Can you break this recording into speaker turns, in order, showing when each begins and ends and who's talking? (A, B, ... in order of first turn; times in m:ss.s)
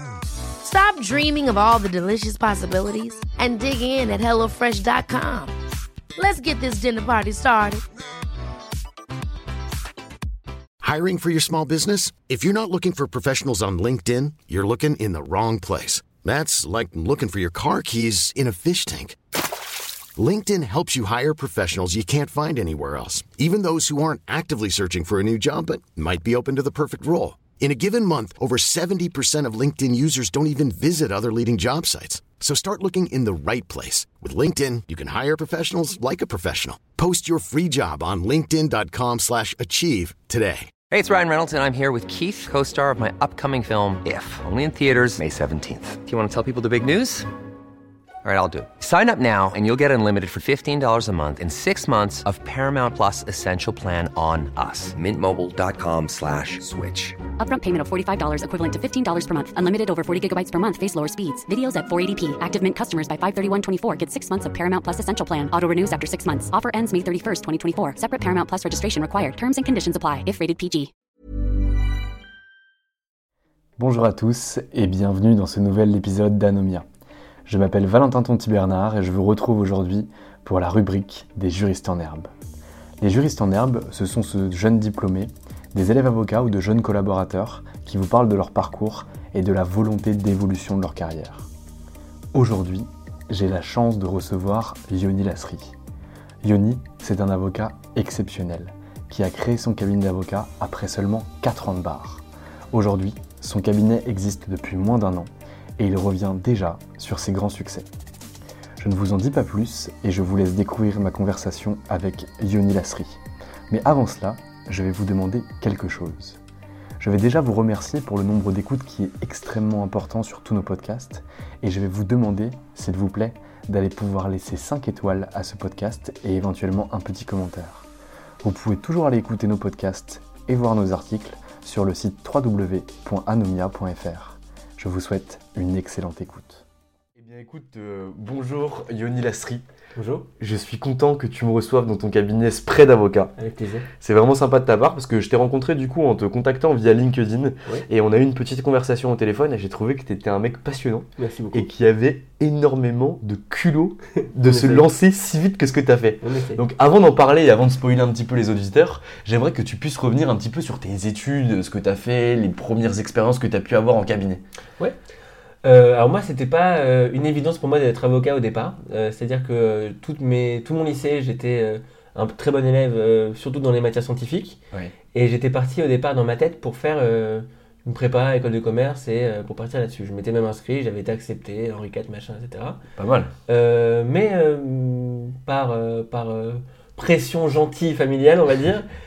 0:00.6-0:05.6 A
0:06.2-0:07.8 A
0:10.8-0:19.2 B
0:20.2-0:40.7 B
0:40.9-0:47.3 C
0:48.2-0:57.2 C
0:57.4-1:10.9 D
1:13.8-1:16.9 E
1:17.5-1:22.3 E
1:23.0-1:31.5 E
1:32.3-1:35.8 E
1:36.4-1:47.9 E
1:48.8-1:56.4 E
1:57.0-2:07.9 E
2:08.4-2:16.6 E
2:17.2-2:19.6 E
2:20.0-2:20.3 F
2:20.4-2:23.3 E
2:23.4-2:23.9 F
2:24.0-2:44.4 E
2:31.2-2:31.7 F
2:34.4-2:34.9 F
2:36.2-2:36.6 F
2:45.6-2:54.6 F
2:55.1-3:02.8 F
3:03.0-3:03.3 E
3:03.5-3:08.9 F